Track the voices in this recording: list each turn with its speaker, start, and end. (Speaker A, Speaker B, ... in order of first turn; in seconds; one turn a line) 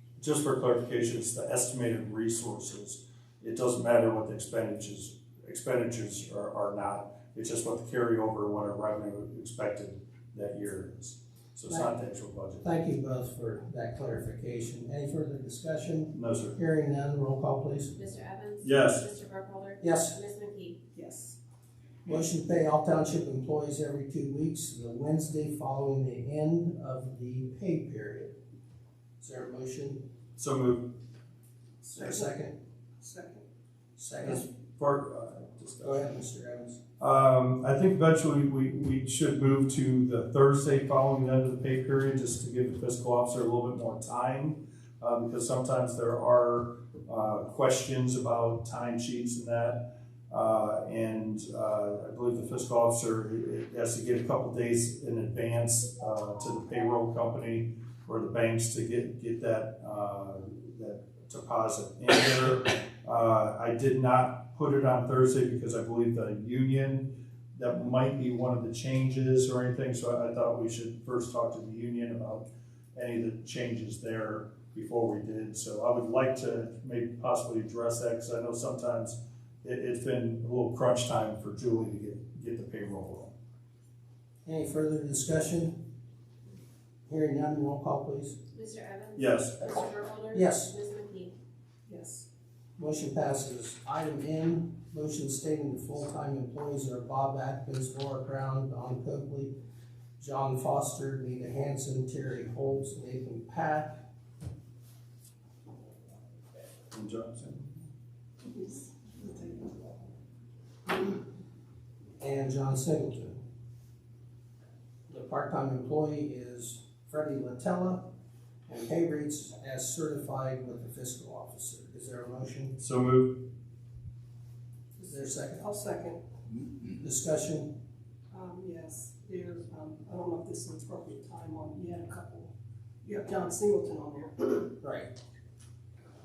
Speaker A: 0.2-12.7
Speaker B: 12.6-17.9
Speaker A: 16.1-16.6
Speaker C: 17.9-20.8
Speaker A: 18.6-19.1
Speaker B: 19.8-20.2
Speaker D: 20.9-21.4
Speaker B: 22.1-28.3
Speaker B: 29.2-30.0
Speaker A: 30.4-30.8
Speaker D: 31.8-32.3
Speaker B: 31.9-32.5
Speaker D: 33.0-33.4
Speaker B: 34.0-34.5
Speaker A: 34.2-36.1
Speaker B: 35.8-36.8
Speaker A: 37.0-83.3
Speaker B: 84.5-85.7
Speaker B: 87.1-88.4
Speaker C: 88.5-91.3
Speaker A: 89.2-89.6
Speaker B: 90.3-90.7
Speaker D: 91.9-92.2
Speaker B: 92.8-99.5
Speaker B: 100.2-104.0
Speaker A: 106.9-107.7
Speaker D: 108.4-110.0
Speaker B: 112.2-113.4
Speaker B: 115.1-118.0
Speaker B: 118.7-122.8
Speaker A: 122.8-123.4
Speaker D: 125.0-126.2
Speaker B: 125.0-125.7
Speaker B: 127.0-127.7
Speaker D: 128.3-132.5
Speaker D: 133.0-134.7
Speaker B: 134.8-135.1